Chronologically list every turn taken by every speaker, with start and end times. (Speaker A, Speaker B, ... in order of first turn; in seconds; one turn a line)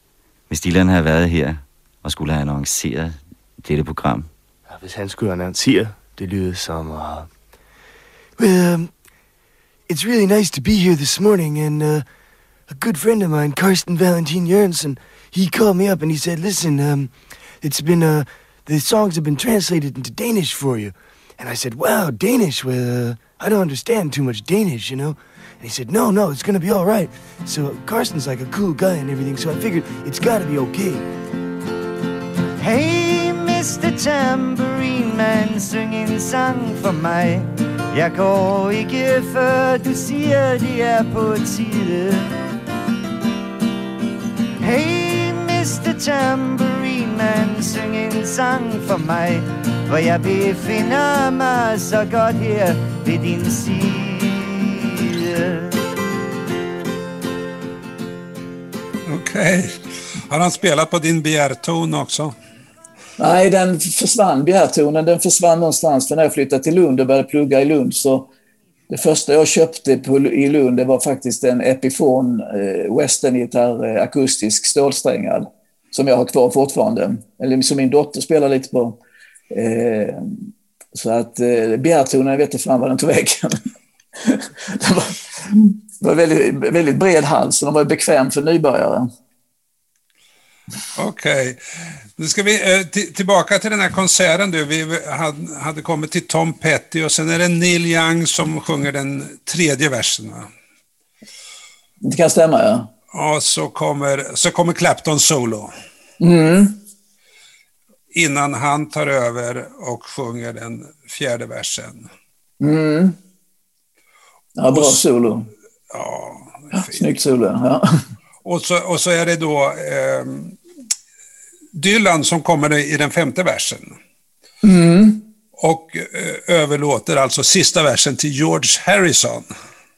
Speaker A: 0.5-4.3
Speaker B: 4.7-7.3
Speaker B: 8.4-9.0
Speaker B: 9.9-12.1
Speaker B: 12.7-31.1
Speaker C: 32.6-42.3
Speaker C: 44.6-55.7
Speaker D: 59.1-62.4
Speaker E: 63.2-68.3
Speaker E: 68.9-79.0
Speaker E: 79.5-83.6
Speaker E: 84.2-89.1
Speaker D: 91.0-91.6
Speaker D: 92.2-100.5
Speaker E: 102.0-102.9
Speaker D: 103.1-105.7
Speaker E: 106.2-106.8
Speaker D: 108.1-112.1
Speaker E: 112.6-113.2
Speaker E: 114.6-115.5
Speaker D: 114.7-115.0
Speaker D: 115.9-117.0
Speaker E: 116.7-117.9
Speaker D: 118.4-120.5
Speaker D: 121.7-124.0
Speaker E: 124.6-125.2
Speaker D: 125.6-129.5